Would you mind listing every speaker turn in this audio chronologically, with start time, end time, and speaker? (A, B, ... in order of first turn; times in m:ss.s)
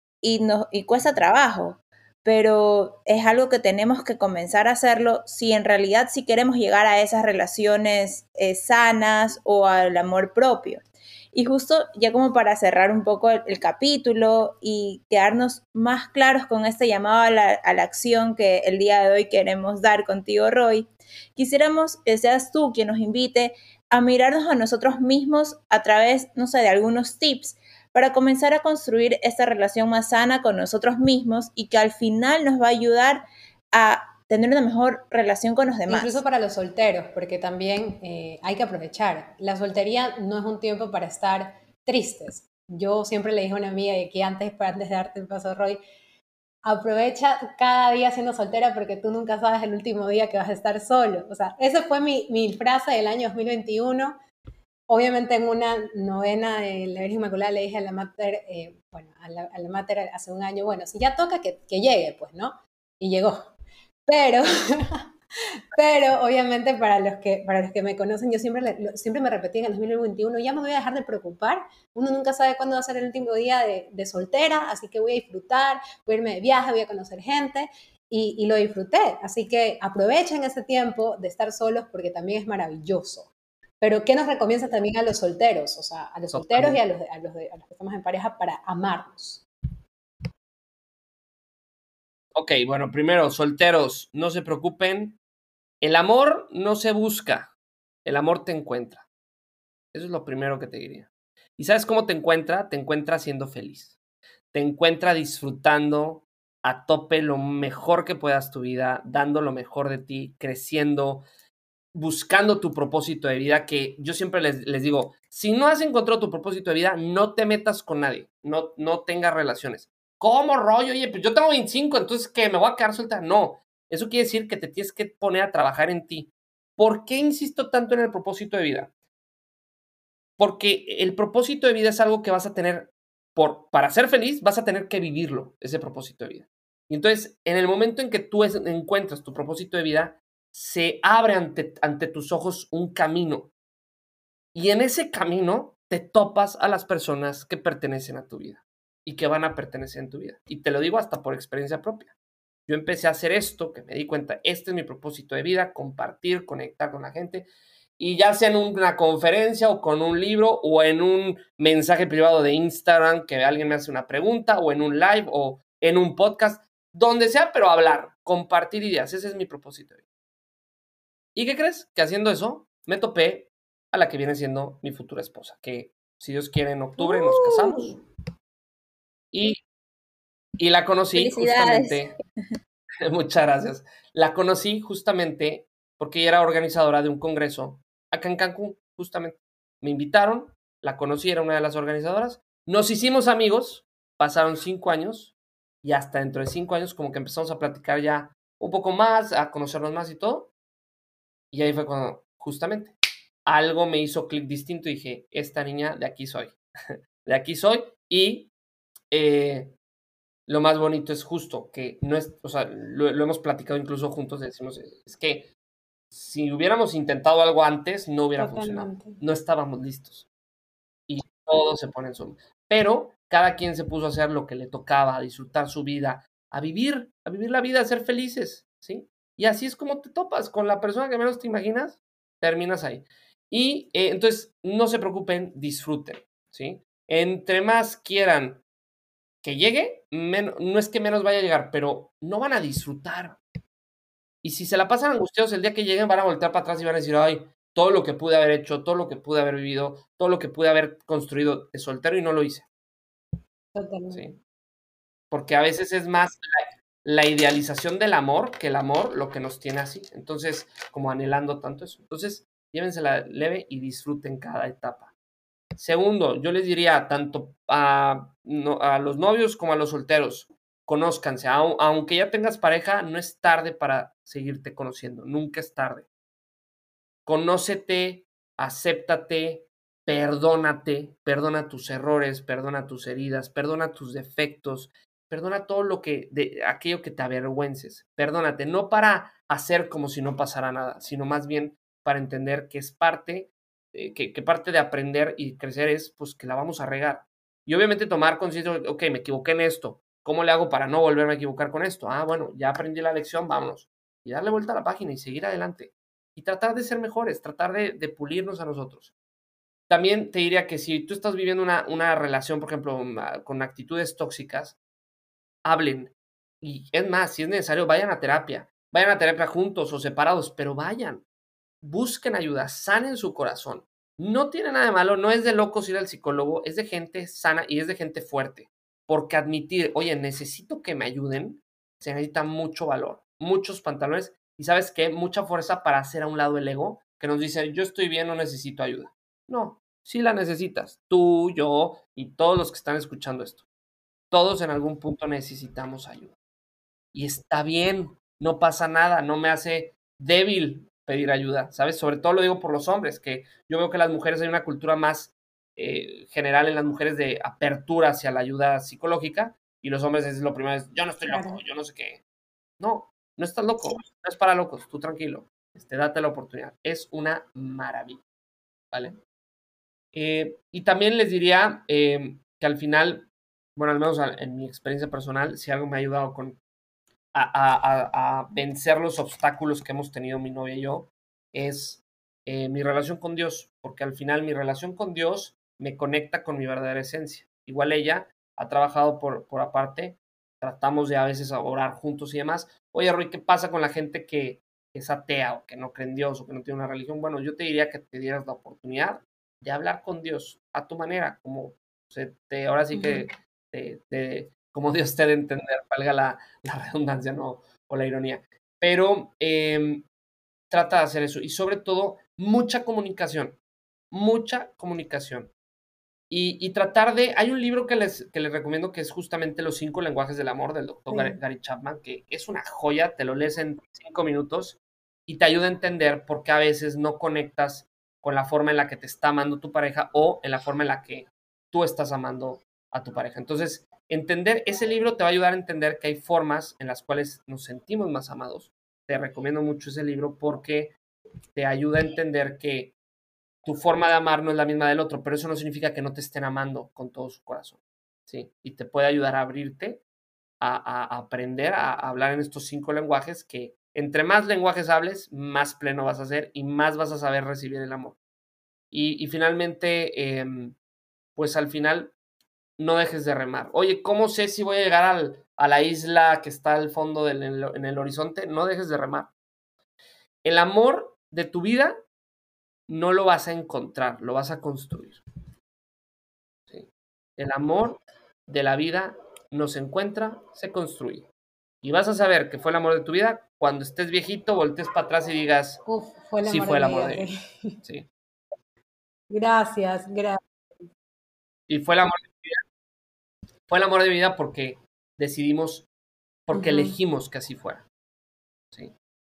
0:00.2-0:36.2 A
0:35.9-0:45.8 B
0:46.6-0:54.2 B
0:54.9-1:03.5 B
1:04.0-1:05.1 B
1:05.7-1:29.4 B
1:26.3-1:26.8 C
1:32.3-1:35.2 C
1:35.8-1:37.5 C
1:38.0-1:39.0 C
1:39.9-1:44.0 C
1:44.5-1:51.2 C
1:51.9-2:08.9 C
2:10.4-2:23.5 C
2:24.5-2:32.1 C
2:32.7-2:37.5 C
2:38.0-2:50.0 C
2:51.3-2:58.0 C
2:57.0-2:58.0 A
2:59.3-2:59.6 C
3:00.6-3:02.1 C
3:01.1-3:02.1 A
3:03.0-3:20.5 C
3:21.5-3:22.9 C
3:23.4-3:26.6 C
3:27.2-3:28.5 C
3:29.1-3:29.7 C
3:30.5-3:35.5 C
3:36.1-3:40.2 C
3:38.4-3:39.2 B
3:41.1-3:58.6 C
3:59.4-4:03.4 C
4:04.4-4:12.6 C
4:13.7-4:14.4 B
4:15.3-4:16.4 C
4:17.0-4:25.1 C
4:25.8-4:36.0 C
4:37.2-5:09.1 C
5:09.9-5:14.8 C
5:15.6-5:21.2 C
5:21.8-5:43.6 C
5:44.3-5:46.3 C
5:47.1-6:02.2 C
6:01.2-6:01.6 B
6:02.8-6:08.2 C
6:08.9-6:09.2 C
6:10.1-6:16.6 C
6:17.3-6:50.0 C
6:43.0-6:43.2 B
6:50.7-6:53.6 C
6:54.1-6:55.5 C
6:56.3-7:20.9 C
7:01.1-7:01.4 B
7:21.5-7:22.9 C
7:23.6-7:30.0 C
7:30.6-7:38.2 C
7:38.9-7:40.8 C
7:41.4-7:42.1 C
7:42.8-7:49.3 C
7:50.4-7:52.0 C
7:52.9-7:55.2 C
7:56.7-8:01.3 C
8:01.8-8:05.8 C
8:05.8-8:07.8 B
8:06.4-8:07.3 C
8:09.3-8:10.4 B
8:11.7-8:12.6 C
8:13.7-8:15.9 C
8:16.5-8:17.8 C
8:16.5-8:17.0 B